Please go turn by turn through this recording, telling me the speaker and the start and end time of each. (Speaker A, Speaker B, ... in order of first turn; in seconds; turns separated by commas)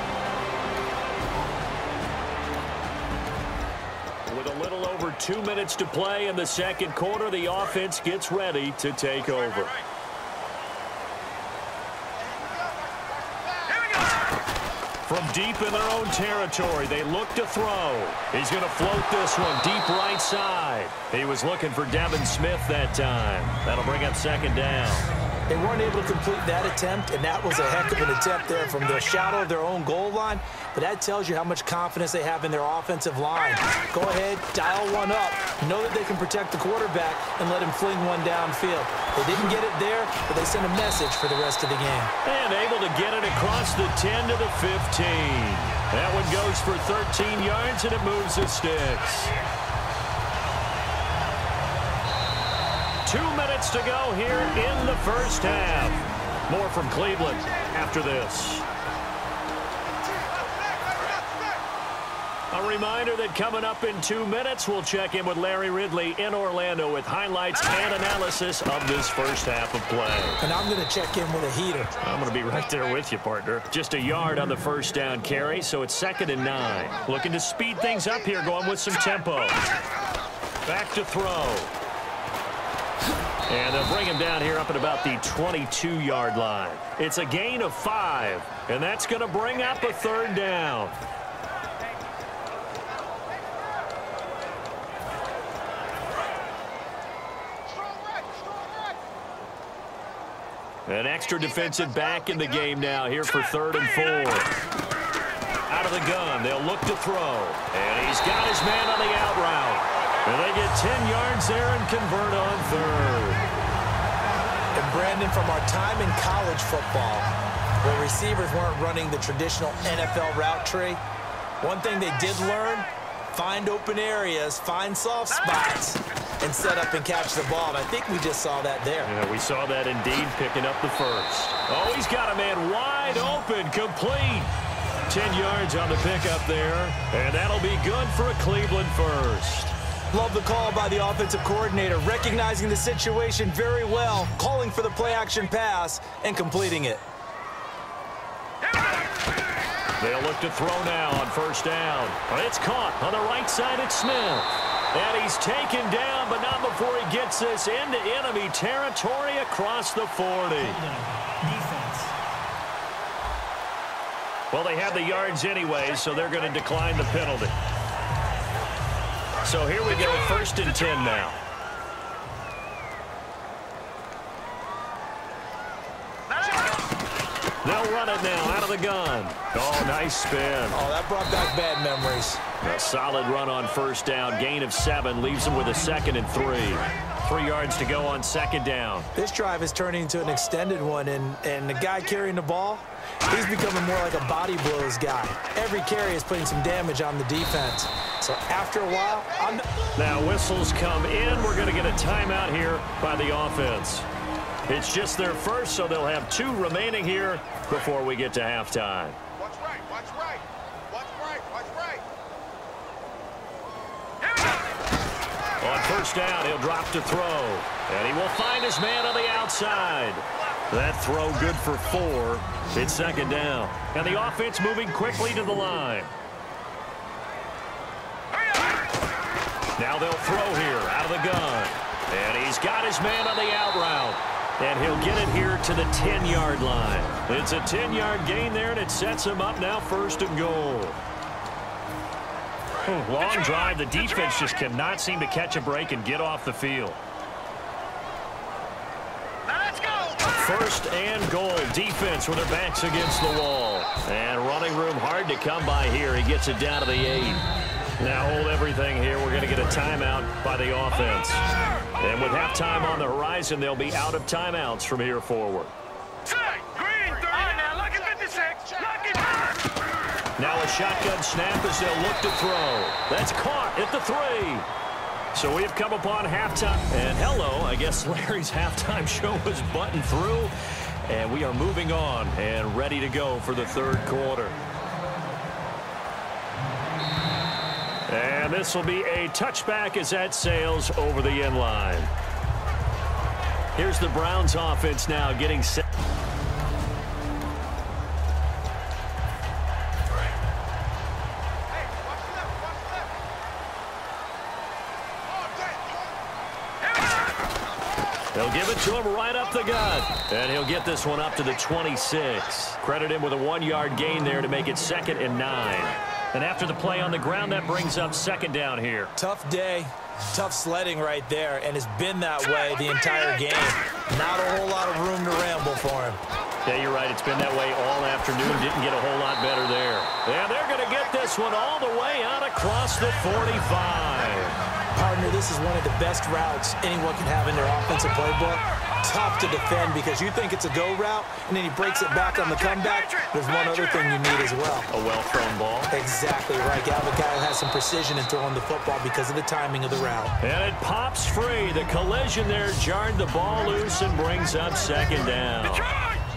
Speaker A: 4.3-9.8, Speaker B: 12.2-13.9, Speaker A: 15.1-25.1, Speaker C: 25.5-42.1, Speaker A: 42.2-49.3, Speaker A: 53.1-58.7, Speaker A: 62.5-70.4, Speaker C: 70.4-72.0, Speaker A: 72.0-79.6, Speaker A: 80.7-81.7, Speaker A: 83.5-91.0, Speaker B: 98.0-98.8, Speaker A: 100.9-104.5, Speaker A: 105.7-113.5, Speaker C: 114.8-117.3, Speaker C: 117.8-121.0, Speaker C: 121.6-129.1, Speaker A: 129.0-134.5, Speaker A: 135.1-139.8, Speaker C: 140.1-147.0, Speaker A: 150.0-160.8, Speaker C: 160.6-162.1, Speaker A: 164.5-167.5, Speaker A: 169.4-171.4, Speaker A: 177.6-180.8, Speaker C: 180.7-182.4, Speaker A: 182.6-189.1, Speaker C: 189.2-199.7, Speaker A: 199.9-204.1, Speaker A: 204.7-209.2, Speaker B: 209.4-212.0, Speaker A: 215.6-226.1, Speaker A: 229.8-241.0, Speaker A: 242.9-247.0, Speaker A: 250.1-257.4, Speaker A: 258.0-261.5, Speaker A: 262.0-265.7, Speaker B: 267.3-269.1, Speaker A: 270.4-274.7, Speaker A: 275.3-280.5, Speaker A: 281.0-284.6, Speaker A: 288.1-292.1, Speaker A: 293.8-295.8, Speaker B: 301.8-303.1, Speaker B: 305.3-306.2, Speaker A: 308.3-319.1, Speaker C: 319.2-326.2, Speaker A: 326.7-334.6, Speaker C: 334.9-344.9, Speaker A: 344.9-345.9, Speaker C: 345.9-350.3, Speaker A: 350.4-355.9